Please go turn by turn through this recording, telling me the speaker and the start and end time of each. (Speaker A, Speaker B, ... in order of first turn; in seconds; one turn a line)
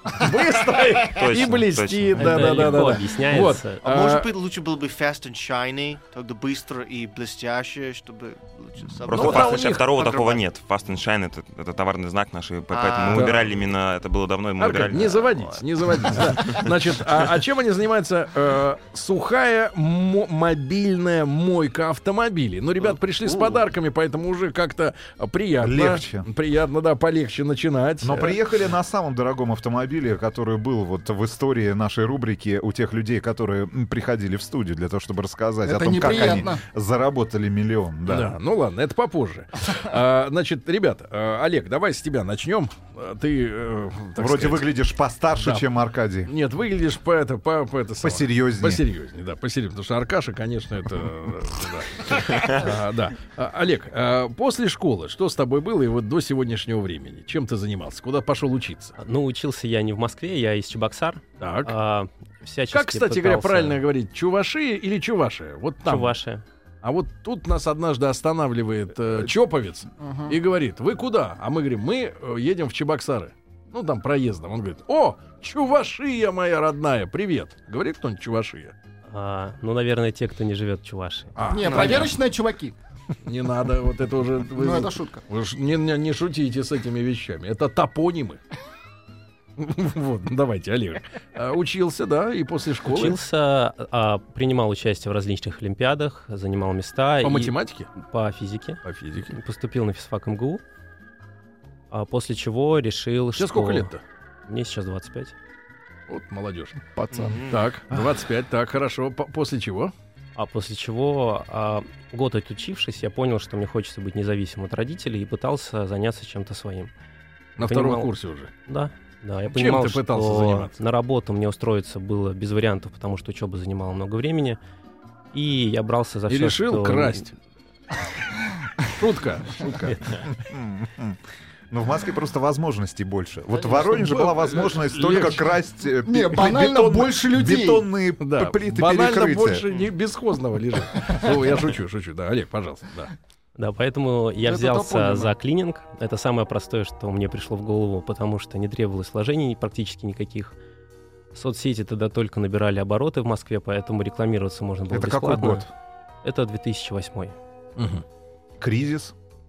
Speaker A: 0.2-4.3
Speaker B: 1.1-2.8
Speaker C: 2.1-3.8
Speaker D: 3.8-10.4
Speaker B: 9.0-15.6
Speaker A: 9.1-9.9
Speaker D: 12.7-13.3
Speaker A: 13.1-13.7
Speaker A: 14.6-28.4
Speaker D: 23.2-23.6
Speaker E: 25.6-26.3
Speaker E: 28.0-38.4
Speaker F: 35.6-36.6
Speaker A: 38.1-44.7
Speaker E: 44.2-46.3
Speaker A: 45.4-45.7
Speaker A: 46.2-58.9
Speaker E: 48.0-48.8
Speaker C: 59.0-63.8
Speaker A: 61.4-61.8
Speaker A: 62.7-66.2
Speaker C: 65.8-66.4
Speaker A: 66.8-78.7
Speaker F: 70.0-70.4
Speaker C: 79.1-81.3
Speaker A: 81.4-82.2
Speaker F: 81.5-82.8
Speaker A: 83.2-88.4
Speaker F: 84.5-85.2
Speaker A: 89.6-93.2
Speaker C: 92.9-100.6
Speaker A: 97.2-97.9
Speaker A: 98.8-99.3
Speaker C: 101.9-103.9
Speaker A: 103.3-104.0
Speaker C: 104.5-105.3
Speaker A: 106.1-106.8
Speaker F: 106.8-107.5
Speaker D: 107.1-107.5
Speaker A: 107.5-109.9
Speaker C: 110.3-116.9
Speaker A: 117.6-118.5
Speaker C: 117.6-118.1
Speaker C: 118.7-124.6
Speaker A: 119.5-120.7
Speaker C: 125.3-127.3
Speaker A: 126.3-127.3
Speaker A: 129.0-130.0
Speaker E: 130.3-131.2
Speaker E: 131.7-139.6
Speaker A: 133.6-135.5
Speaker F: 136.1-137.9
Speaker A: 138.2-143.1
Speaker C: 143.6-150.6
Speaker F: 144.4-145.3
Speaker C: 151.3-155.7
Speaker E: 154.9-155.7
Speaker C: 156.2-157.3
Speaker A: 157.8-158.0
Speaker E: 158.6-159.1